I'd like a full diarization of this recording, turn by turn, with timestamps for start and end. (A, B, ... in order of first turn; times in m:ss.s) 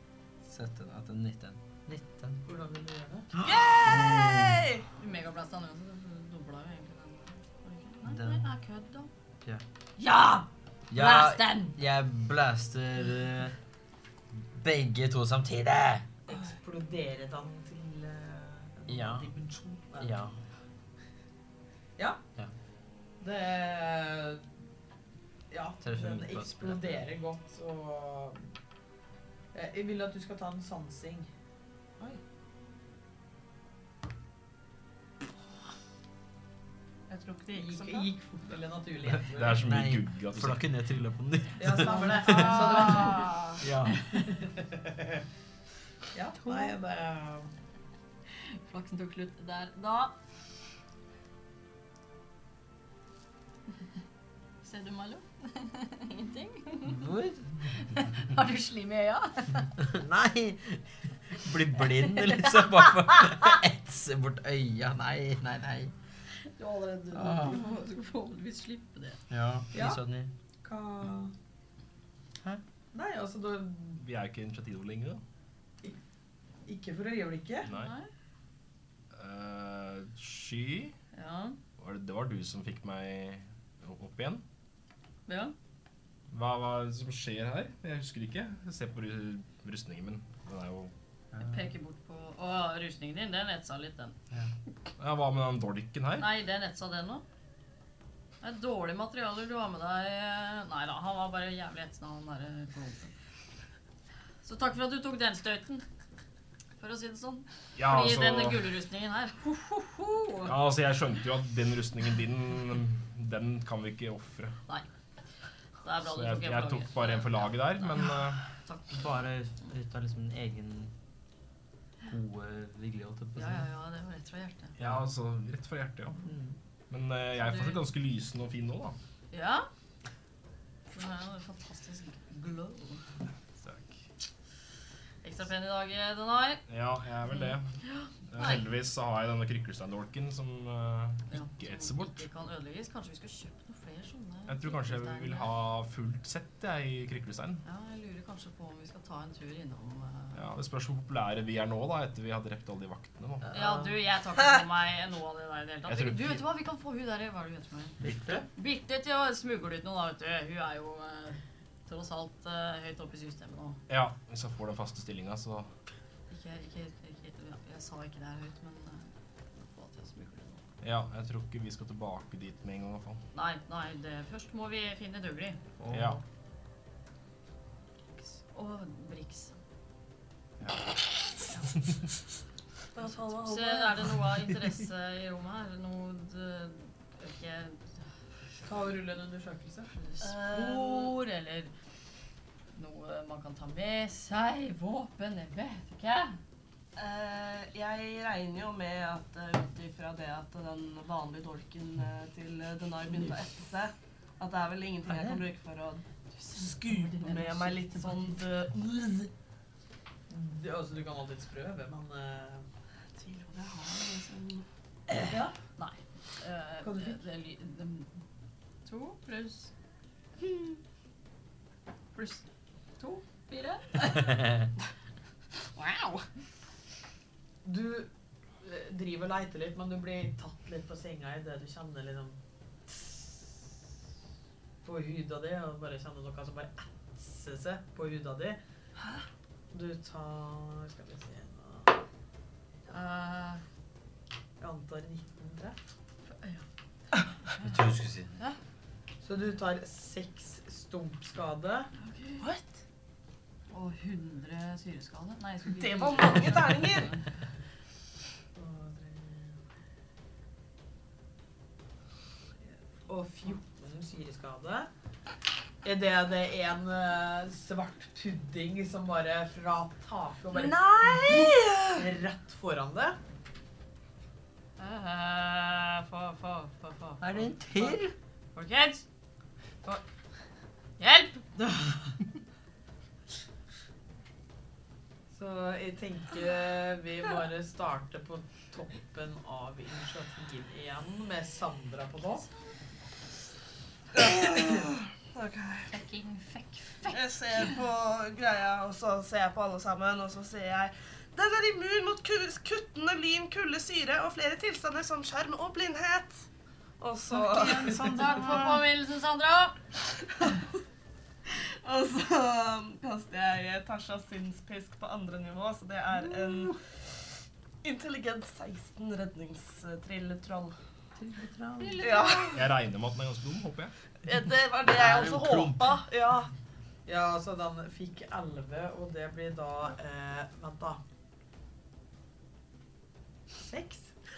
0:00.4-0:02.4 A
0:02.4-0:03.3 B
0:03.3-0:04.7 A
0:03.4-0:04.8 C
0:05.0-0:09.1 D
0:08.0-0:08.5 A
0:10.0-0:11.7 D
0:10.9-0:13.6 A
0:14.3-0:16.1 A
0:16.3-0:20.2 B
0:18.9-0:19.3 A
0:20.0-0:20.4 A
0:23.2-0:24.5 B
0:25.5-0:28.5 B
0:25.8-0:27.0 A
0:29.5-0:31.3 B
0:37.1-0:38.1 C
0:37.5-0:39.6 B
0:39.3-0:40.6 E
0:39.6-0:44.0 A
0:41.6-0:43.4 B
0:41.8-0:43.6 C
0:44.1-0:45.2 B
0:46.1-0:47.5 B
0:48.3-0:50.1 D
0:54.6-0:57.0 D
0:56.9-0:57.7 A
0:57.8-0:59.8 D
0:59.8-1:05.9 A
1:01.8-1:03.5 D
1:06.4-1:09.2 D
1:07.1-1:07.7 A
1:09.3-1:10.3 A
1:09.7-1:10.0 B
1:10.6-1:11.3 B
1:12.9-1:14.0 B
1:14.0-1:15.2 E
1:16.6-1:17.7 B
1:17.7-1:18.1 D
1:19.1-1:21.0 E
1:21.1-1:21.6 D
1:21.8-1:24.4 E
1:25.3-1:25.5 D
1:26.3-1:30.9 E
1:31.3-1:31.7 A
1:31.4-1:34.2 D
1:35.0-1:36.3 E
1:36.2-1:37.2 D
1:38.4-1:43.1 D
1:44.4-1:45.8 D
1:46.8-1:50.5 D
1:47.8-1:48.7 E
1:50.4-1:54.6 E
1:55.8-1:59.0 D
1:56.0-1:58.4 E
1:58.9-2:00.9 A
2:02.0-2:03.7 A
2:03.4-2:04.8 D
2:04.8-2:06.2 E
2:06.9-2:09.0 E
2:07.4-2:07.8 D
2:09.3-2:09.7 D
2:10.9-2:13.0 D
2:13.6-2:14.0 E
2:15.2-2:16.6 D
2:16.7-2:17.8 E
2:17.3-2:18.7 D
2:18.3-2:22.3 E
2:21.3-2:25.5 D
2:24.5-2:27.6 E
2:27.6-2:30.4 D
2:30.3-2:33.5 E
2:33.5-2:38.0 D
2:35.9-2:36.4 E
2:38.0-2:38.4 A
2:38.0-2:38.4 E
2:38.5-2:43.8 D
2:43.9-2:45.7 E
2:46.3-2:50.6 D
2:50.8-2:53.2 E
2:53.3-2:55.6 D
2:55.8-2:56.2 A
2:55.9-2:56.2 E
2:58.2-2:59.6 D
3:00.6-3:00.9 E
3:03.0-3:03.9 C
3:03.2-3:08.0 D
3:08.6-3:09.9 B
3:09.9-3:11.7 D
3:10.2-3:11.1 C
3:12.7-3:16.4 D
3:17.0-3:29.3 C
3:25.1-3:25.4 A
3:26.3-3:28.4 D
3:30.3-3:32.6 B
3:33.2-3:34.6 C
3:35.3-3:35.6 B
3:35.8-3:38.2 D
3:36.8-3:37.2 B
3:38.8-3:39.7 D
3:42.1-3:42.4 D
3:43.0-3:44.7 D
3:45.8-3:46.2 C
3:47.6-3:48.1 B
3:48.6-3:53.5 B
3:54.8-3:58.6 B
3:59.7-4:01.9 B
4:02.9-4:03.6 D
4:04.6-4:05.8 B
4:06.3-4:06.6 D
4:07.6-4:08.3 A
4:09.2-4:11.9 B
4:12.0-4:12.4 D
4:13.7-4:17.3 D
4:15.7-4:17.1 C
4:18.5-4:19.6 B
4:22.7-4:24.9 B
4:25.8-4:33.2 B
4:30.5-4:32.0 C
4:34.8-4:37.2 D
4:37.2-4:38.1 A
4:38.5-4:39.0 D
4:41.0-4:42.2 D
4:45.3-4:52.5 B
4:54.1-4:55.9 C
4:55.9-4:57.8 D
4:57.0-5:06.4 C
5:07.0-5:08.8 C
5:07.3-5:09.8 D
5:11.4-5:16.8 C
5:17.8-5:20.7 C
5:21.2-5:22.1 B
5:21.8-5:22.6 D
5:22.0-5:22.7 C
5:22.5-5:23.9 E
5:24.2-5:26.5 C
5:24.8-5:26.0 A
5:27.0-5:31.0 B
5:33.6-5:34.1 B